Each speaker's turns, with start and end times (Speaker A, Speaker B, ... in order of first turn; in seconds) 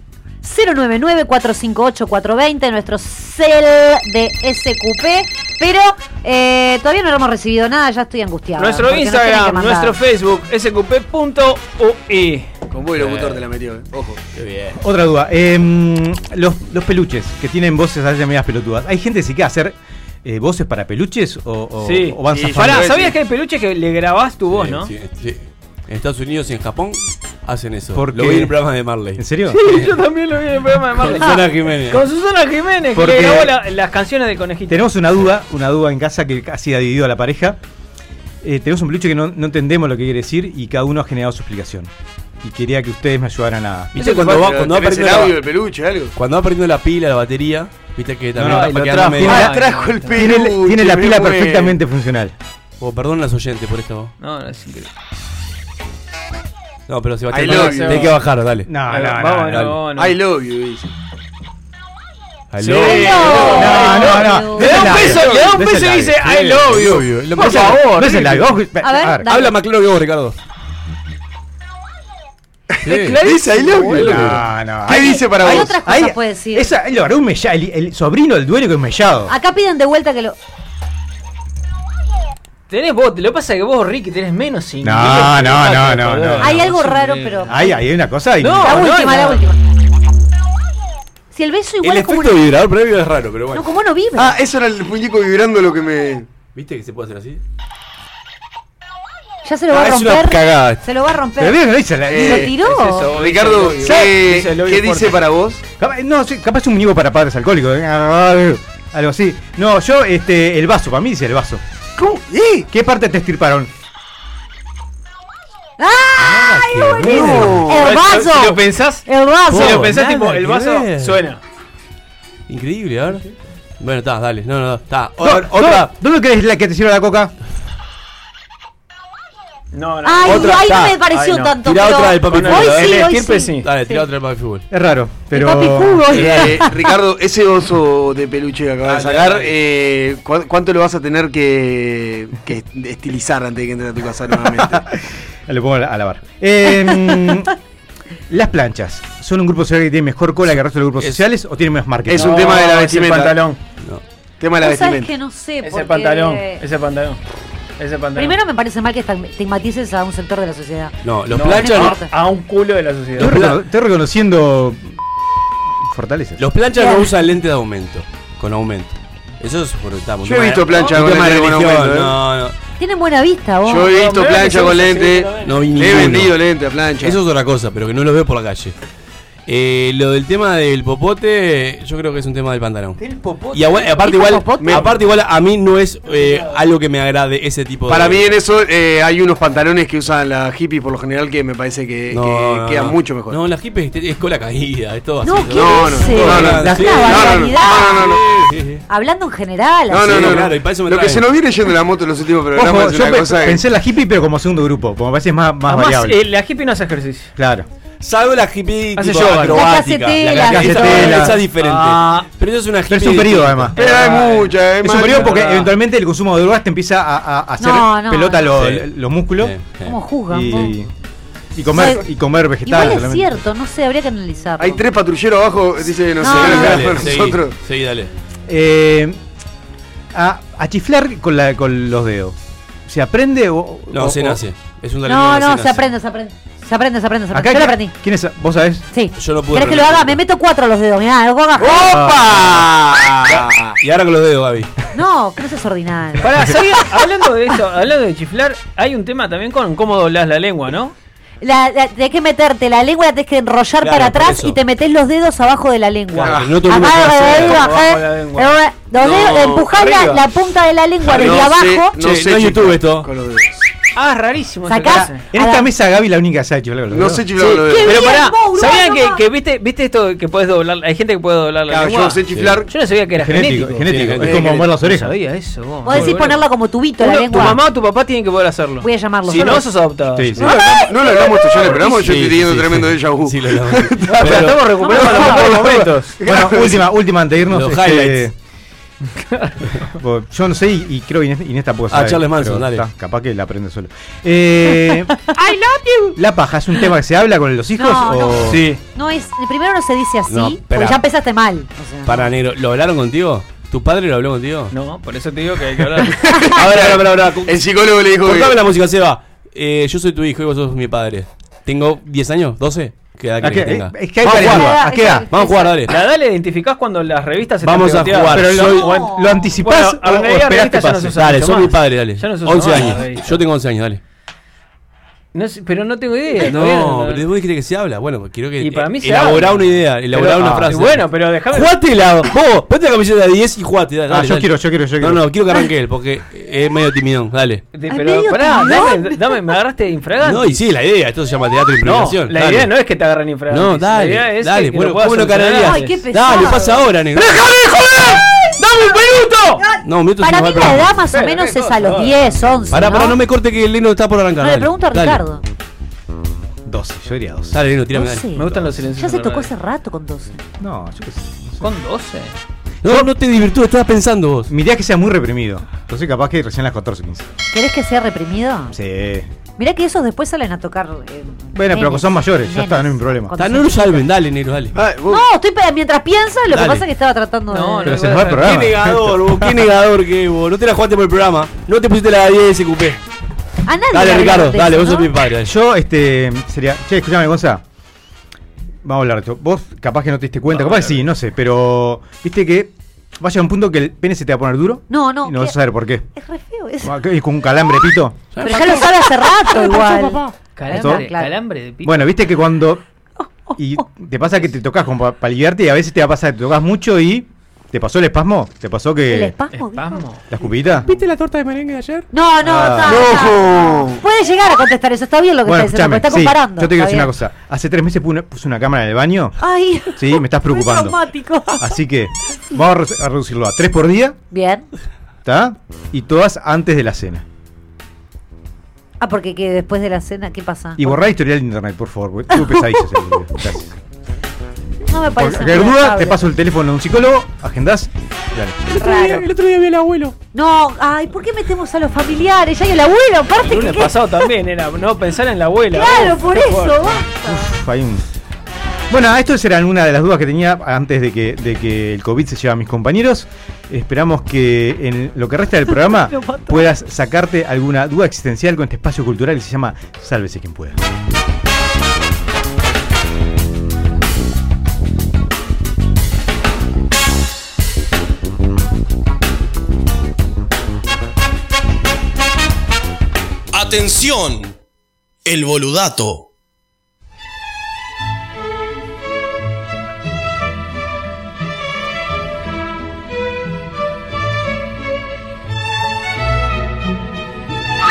Speaker A: 0.4-10.0, 62.8-65.0, 68.8-69.5, 75.0-76.7, 79.3-80.4, 86.4-87.6, 88.6-89.6, 91.3-92.4, 93.5-94.4, 99.4-101.6, 102.2-103.1, 115.8-119.8, 130.1-134.0, 135.3-136.7, 146.9-147.3, 154.6-156.6, 158.2-160.9, 161.5-162.1, 166.8-167.1, 172.8-173.9, 183.8-184.9, 195.2-198.0, 198.9-200.3, 209.5-211.3, 217.6-218.5, 219.8-220.8, 221.7-222.0, 222.7-224.8, 226.2-226.9, 235.1-237.9, 238.9-241.9, 244.9-246.3, 251.4-261.9, 264.7-265.7, 267.6-269.2, 275.8-277.6, 278.8-279.7, 280.4-281.7, 284.8-285.4, 297.8-302.3, 314.3-315.8, 318.6-319.5, 337.9-339.4, 345.6-346.8, 349.6-353.2, 354.4-355.4, 357.9-360.4, 367.5-368.7, 369.6-374.1, 375.1-378.0, 383.7-385.1, 394.9-395.6, 396.1-397.0, 398.4-401.3, 403.5-403.9, 409.1-410.0, 412.1-417.1, 419.4-421.8, 424.3-424.7, 429.0-431.1, 432.3-433.1, 434.9-436.2, 438.8-439.2, 440.3-444.2, 445.7-447.5, 455.7-456.7
Speaker B: 8.6-12.5, 21.8-24.9, 29.5-34.8, 48.4-50.2, 54.2-54.9, 57.5-58.1, 58.9-60.2, 62.6-68.5, 72.9-74.4, 82.7-87.8, 88.4-89.5, 102.6-105.2, 117.2-121.4, 129.7-131.6, 132.2-133.7, 152.1-153.6, 155.6-157.2, 157.8-158.4, 161.3-163.4, 170.7-171.0, 173.8-175.7, 183.0-184.0, 186.1-186.6, 205.7-207.3, 209.0-209.7, 210.8-212.3, 213.8-215.7, 246.2-250.9, 257.2-258.6, 259.6-260.2, 263.9-265.3, 267.4-276.4, 277.0-280.8, 284.1-286.2, 295.4-296.1, 298.5-298.8, 304.7-306.2, 315.9-323.4, 325.3-327.2, 328.6-331.7, 337.7-340.6, 341.8-346.0, 347.1-349.6, 351.1-352.4, 358.3-359.5, 361.6-362.4, 377.5-378.6, 390.5-391.0, 400.6-402.2, 409.5-410.4, 443.4-446.9
Speaker C: 12.7-14.2, 22.3-23.1, 44.0-46.1, 48.7-51.8, 57.3-58.1, 60.0-60.9, 63.3-63.8, 65.1-65.3, 72.7-75.7, 94.2-96.3, 102.1-102.6, 103.1-105.6, 112.0-112.7, 117.1-117.7, 136.1-144.8, 152.1-153.4, 154.4-155.1, 170.2-172.2, 173.7-177.2, 184.6-184.9, 187.9-193.4, 195.5-198.5, 199.9-203.6, 213.8-215.6, 224.6-227.5, 241.6-243.8, 256.2-256.5, 259.0-259.7, 261.1-263.6, 266.9-268.1, 271.7-272.7, 280.4-284.4, 285.2-286.8, 306.2-308.6, 374.8-375.3, 412.8-414.0
Speaker D: 13.0-13.4, 14.3-14.8, 24.5-29.9, 31.0-32.1, 43.9-45.4, 46.1-49.5, 52.8-54.1, 56.9-58.7, 59.5-59.8, 62.5-63.5, 66.2-68.2, 69.3-70.3, 72.8-73.2, 91.8-93.7, 96.5-97.4, 99.7-100.8, 116.2-117.7, 119.5-121.2, 122.5-123.2, 123.8-125.9, 130.2-131.0, 131.6-133.1, 133.6-134.6, 138.8-139.6, 151.0-151.2, 153.8-154.0, 161.0-162.0, 163.2-163.6, 166.4-172.6, 175.4-176.4, 177.0-178.7, 179.5-183.0, 183.5-188.3, 192.1-198.8, 200.0-201.3, 208.0-213.8, 218.6-220.0, 226.2-228.1, 233.9-235.9, 239.2-240.2, 241.7-244.7, 253.8-254.6, 256.2-257.7, 261.1-263.1, 272.3-272.6, 273.9-274.5, 281.6-284.6, 287.5-288.3, 291.9-292.9, 300.3-301.0, 302.1-304.7, 306.5-307.6, 308.2-315.9, 317.6-318.9, 320.8-324.0, 326.3-337.6, 340.2-342.7, 343.5-347.5, 349.8-351.0, 352.7-355.2, 357.5-358.3, 362.8-364.5, 373.4-374.8, 376.5-376.9, 378.2-383.0, 383.9-385.5, 398.3-398.9, 399.6-400.2, 410.8-412.1, 438.7-440.1
Speaker E: 14.8-22.9, 27.9-28.5, 29.2-29.7, 33.0-33.6, 34.7-37.6, 38.4-41.9, 42.4-43.9, 48.4-49.5, 50.1-52.4, 58.7-59.7, 63.5-66.6, 67.4-69.3, 73.9-79.3, 84.8-86.7, 87.5-88.9, 101.4-102.5, 105.8-111.6, 112.7-113.7, 125.2-127.3, 134.7-136.3, 144.5-147.5, 148.3-152.3, 163.2-164.9, 165.8-166.4, 196.7-197.0, 202.6-206.2, 207.4-207.7, 210.4-211.4, 212.9-213.8, 214.8-219.5, 220.3-220.9, 221.6-223.4, 228.5-229.2, 230.1-232.4, 232.9-234.4, 237.3-238.9, 265.2-267.3, 273.2-275.1, 280.1-280.6, 284.3-288.3, 289.8-295.2, 296.2-298.7, 313.4-315.3, 318.3-321.1, 330.4-330.7, 334.1-335.3, 356.6-357.6, 360.6-361.7, 362.9-363.1, 364.5-367.3, 368.7-369.3, 371.6-373.4, 377.8-379.6, 385.4-387.6, 388.8-396.1, 396.8-398.3, 400.7-401.1, 401.8-402.8, 403.6-409.4, 410.3-410.9, 412.4-413.2, 415.4-419.4, 419.9-421.0, 421.6-424.2, 425.2-427.2, 430.8-433.8, 435.2-438.7, 447.2-448.0, 448.9-460.8
Speaker F: 473.5-474.6, 475.2-476.3